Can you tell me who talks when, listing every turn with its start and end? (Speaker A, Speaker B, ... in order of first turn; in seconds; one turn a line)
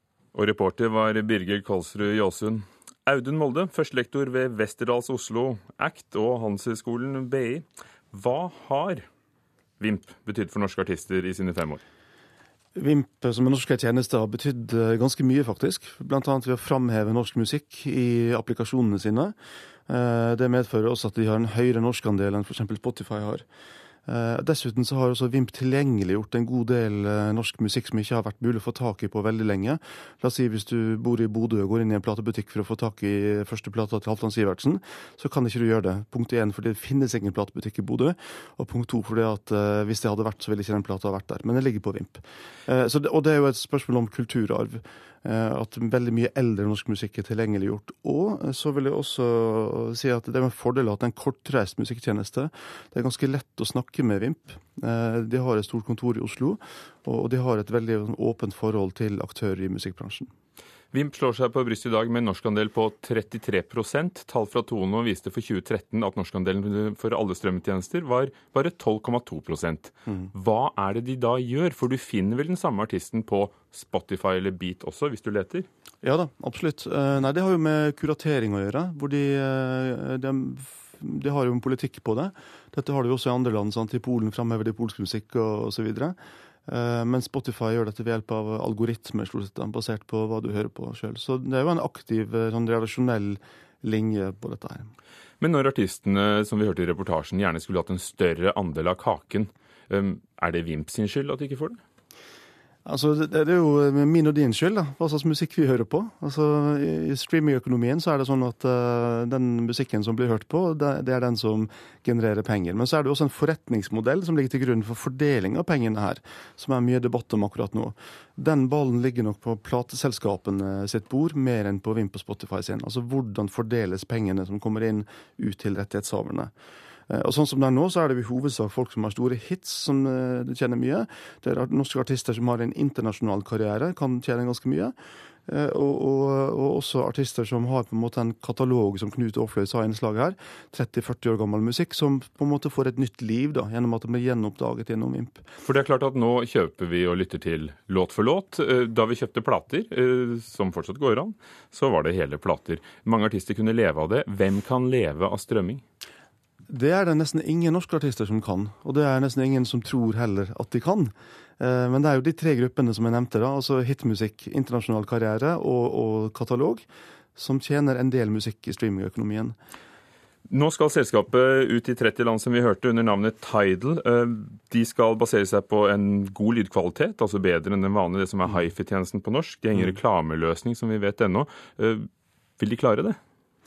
Speaker A: 0.3-9.1
Speaker A: 9.8-11.8
Speaker B: 12.8-19.3
Speaker B: 19.9-23.4
Speaker B: 24.1-60.3
Speaker A: 60.9-75.7
Speaker B: 76.0-86.2
Speaker B: 86.7-94.9
Speaker A: 95.4-101.8
Speaker B: 102.8-126.5
Speaker B: 127.1-134.9
Speaker B: 135.5-145.4
Speaker A: 145.6-155.8
Speaker B: 156.7-166.8
Speaker B: 167.4-169.6
Speaker A: 170.5-182.1
Speaker A: 182.6-183.2